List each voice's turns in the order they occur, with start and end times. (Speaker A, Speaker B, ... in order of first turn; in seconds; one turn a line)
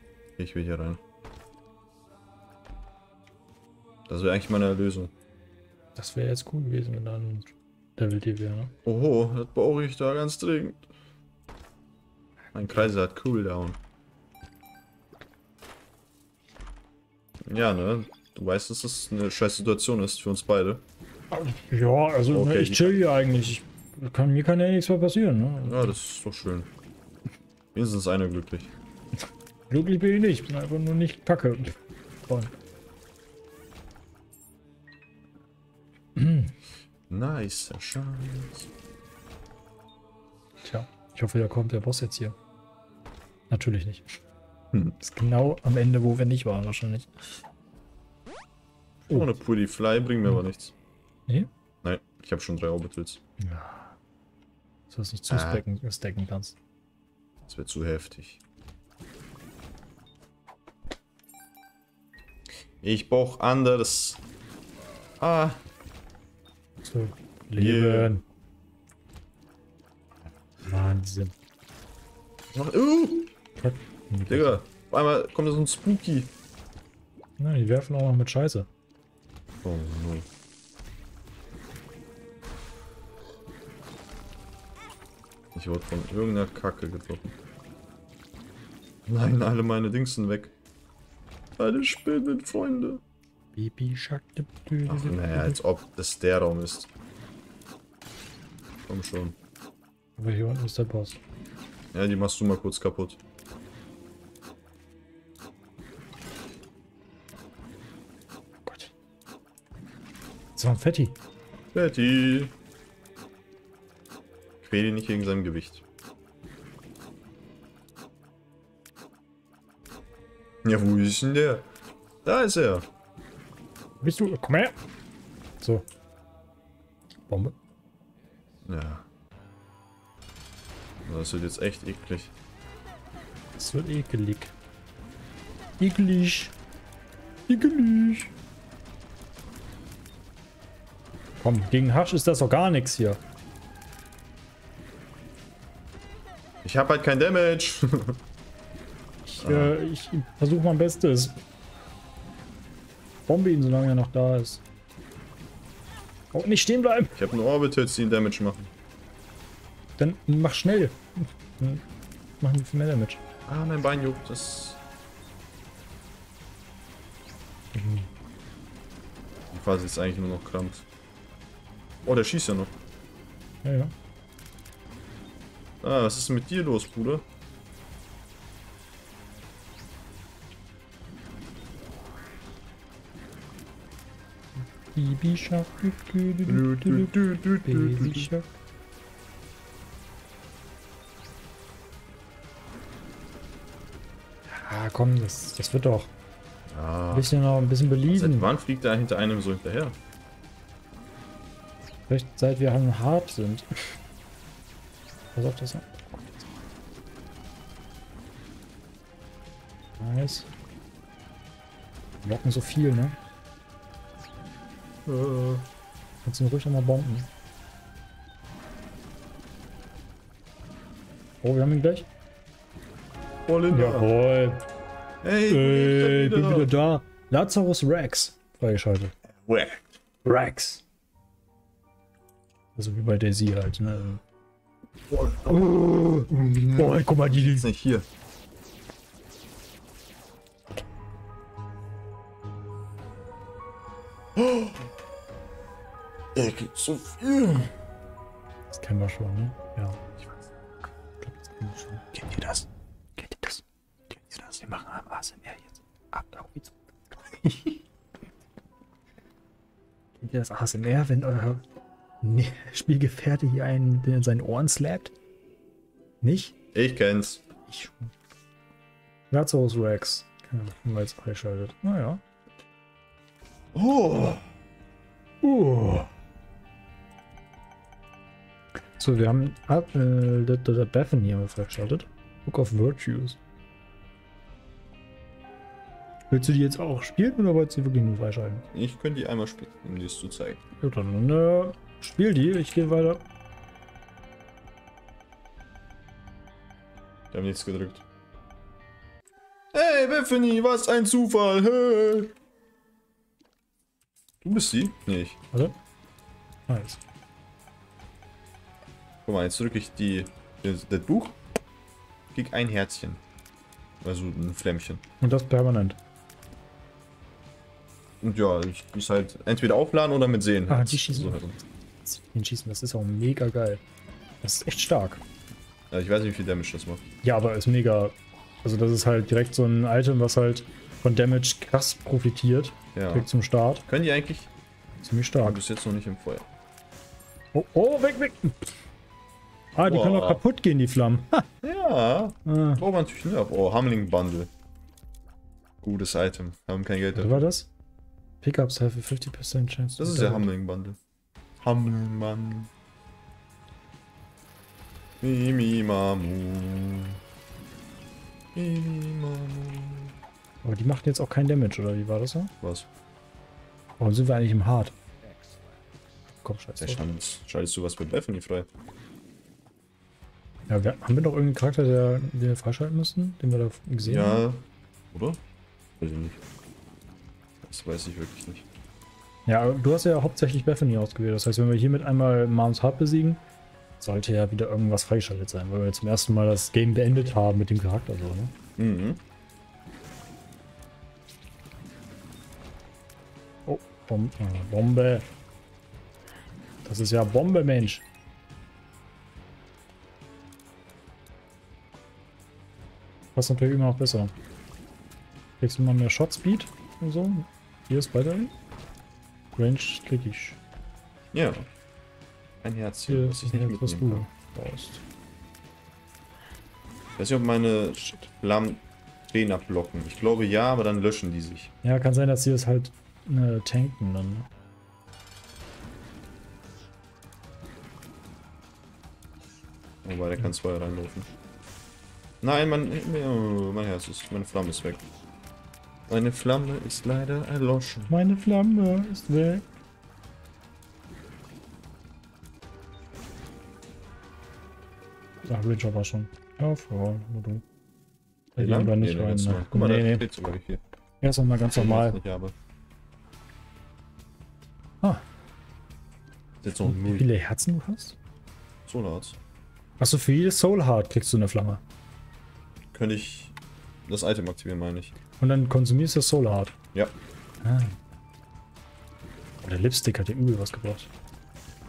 Speaker A: 0.4-1.0
Speaker A: 4.1-5.1
Speaker B: 5.9-8.7
Speaker A: 8.8-10.9
Speaker A: 12.5-13.8
Speaker A: 17.5-20.8
Speaker B: 21.3-25.9
Speaker A: 22.3-23.0
Speaker A: 25.6-26.7
Speaker A: 27.7-28.7
Speaker B: 29.7-32.5
Speaker B: 36.1-36.5
Speaker A: 37.1-38.7
Speaker B: 40.6-42.4
Speaker B: 43.5-44.2
Speaker B: 45.0-47.4
Speaker A: 49.1-50.7
Speaker A: 51.8-53.2
Speaker B: 53.4-53.9
Speaker B: 54.9-56.5
Speaker A: 55.3-55.6
Speaker A: 57.5-58.4
Speaker A: 62.8-64.2
Speaker A: 65.2-65.6
Speaker B: 66.8-68.2
Speaker A: 67.5-68.1
Speaker B: 70.6-71.3
Speaker A: 72.5-73.3
Speaker B: 73.6-74.6
Speaker A: 74.3-76.3
Speaker B: 77.4-78.7
Speaker A: 79.6-80.3
Speaker A: 85.5-87.3
Speaker A: 89.1-90.5
Speaker A: 91.6-93.0
Speaker B: 93.5-95.6
Speaker A: 94.9-96.9
Speaker A: 98.9-99.3
Speaker B: 100.2-101.2
Speaker A: 101.9-103.2
Speaker B: 108.7-108.9
Speaker B: 110.5-111.2
Speaker A: 111.7-112.5
Speaker A: 114.6-115.8
Speaker A: 120.6-121.7
Speaker A: 122.2-122.9
Speaker B: 124.0-124.8
Speaker B: 125.6-125.9
Speaker B: 127.3-127.5
Speaker A: 128.6-129.0
Speaker A: 131.0-132.3
Speaker B: 133.6-134.5
Speaker B: 135.8-136.5
Speaker B: 137.5-138.3
Speaker B: 141.4-143.2
Speaker A: 146.6-148.2
Speaker B: 149.2-151.4
Speaker A: 149.4-149.7
Speaker B: 153.3-154.6
Speaker B: 156.3-157.1
Speaker A: 157.1-158.7
Speaker B: 160.0-161.8
Speaker B: 162.4-163.2
Speaker A: 163.5-164.8
Speaker B: 167.7-168.1
Speaker A: 169.5-170.8
Speaker A: 172.0-172.7
Speaker B: 173.6-173.9
Speaker A: 175.8-177.2
Speaker B: 184.6-188.5
Speaker A: 186.5-188.3
Speaker B: 194.5-196.1
Speaker A: 196.7-197.3
Speaker B: 197.1-198.5
Speaker A: 198.1-200.0
Speaker B: 202.1-204.0
Speaker B: 205.3-206.4
Speaker B: 210.0-210.5
Speaker B: 212.2-213.2
Speaker A: 215.1-215.7
Speaker B: 216.2-217.3
Speaker B: 221.4-222.1
Speaker A: 223.5-224.1
Speaker B: 223.7-224.6
Speaker A: 225.2-226.7
Speaker B: 225.5-229.1
Speaker A: 229.3-229.8
Speaker B: 230.2-230.8
Speaker B: 232.8-234.2
Speaker A: 235.1-235.6
Speaker B: 235.4-237.7
Speaker A: 236.3-238.1
Speaker A: 244.3-244.9
Speaker A: 246.3-247.7
Speaker B: 248.7-250.0
Speaker B: 251.2-252.6
Speaker B: 253.2-257.8
Speaker B: 260.2-261.6
Speaker B: 262.2-265.1
Speaker B: 266.2-266.5
Speaker A: 266.7-267.4
Speaker B: 267.7-268.1
Speaker B: 269.3-272.2
Speaker A: 273.7-274.5
Speaker B: 275.4-276.1
Speaker B: 279.0-283.4
Speaker B: 286.3-288.7
Speaker A: 288.7-290.6
Speaker B: 290.8-293.2
Speaker A: 297.3-298.0
Speaker A: 299.7-302.3
Speaker A: 304.4-305.4
Speaker B: 306.7-307.0
Speaker A: 309.2-311.4
Speaker A: 312.3-313.2
Speaker A: 314.0-315.0
Speaker B: 315.2-316.0
Speaker A: 318.2-321.5
Speaker B: 320.7-323.8
Speaker B: 324.4-325.2
Speaker A: 325.9-327.0
Speaker B: 327.2-333.9
Speaker A: 332.9-333.3
Speaker A: 333.9-334.5
Speaker B: 335.0-335.6
Speaker A: 335.4-336.5
Speaker B: 337.5-338.7
Speaker B: 339.7-341.4
Speaker A: 339.8-340.4
Speaker A: 341.6-344.5
Speaker B: 342.4-342.8
Speaker A: 345.8-347.5
Speaker B: 347.1-347.7
Speaker B: 348.4-350.5
Speaker A: 350.0-351.0
Speaker A: 351.6-352.7
Speaker A: 355.2-357.2
Speaker A: 358.5-360.1
Speaker B: 360.6-362.5
Speaker A: 362.6-362.9
Speaker B: 364.0-364.9
Speaker B: 366.4-367.0
Speaker A: 366.8-368.7
Speaker B: 370.7-374.4
Speaker A: 374.0-375.4
Speaker A: 376.0-376.4
Speaker A: 377.6-378.6
Speaker B: 379.4-383.4
Speaker B: 384.0-388.5
Speaker A: 388.8-389.2
Speaker B: 393.6-395.3
Speaker B: 396.8-398.0
Speaker B: 403.3-404.3
Speaker B: 405.6-408.5
Speaker B: 409.5-410.6
Speaker A: 411.3-411.7
Speaker A: 412.6-414.2
Speaker B: 413.1-415.0
Speaker A: 417.2-421.7
Speaker B: 421.8-424.5
Speaker A: 430.0-431.3
Speaker A: 432.4-435.0
Speaker A: 436.1-438.1
Speaker B: 438.1-439.6
Speaker B: 445.4-447.6
Speaker B: 448.6-450.2
Speaker A: 448.6-450.8
Speaker B: 451.2-452.2
Speaker A: 451.7-452.5
Speaker A: 456.6-457.3
Speaker B: 456.8-458.2
Speaker A: 458.9-459.4
Speaker B: 460.0-461.8
Speaker A: 462.9-463.6
Speaker A: 464.1-465.1
Speaker B: 465.4-466.7
Speaker B: 467.6-468.0
Speaker B: 469.6-471.1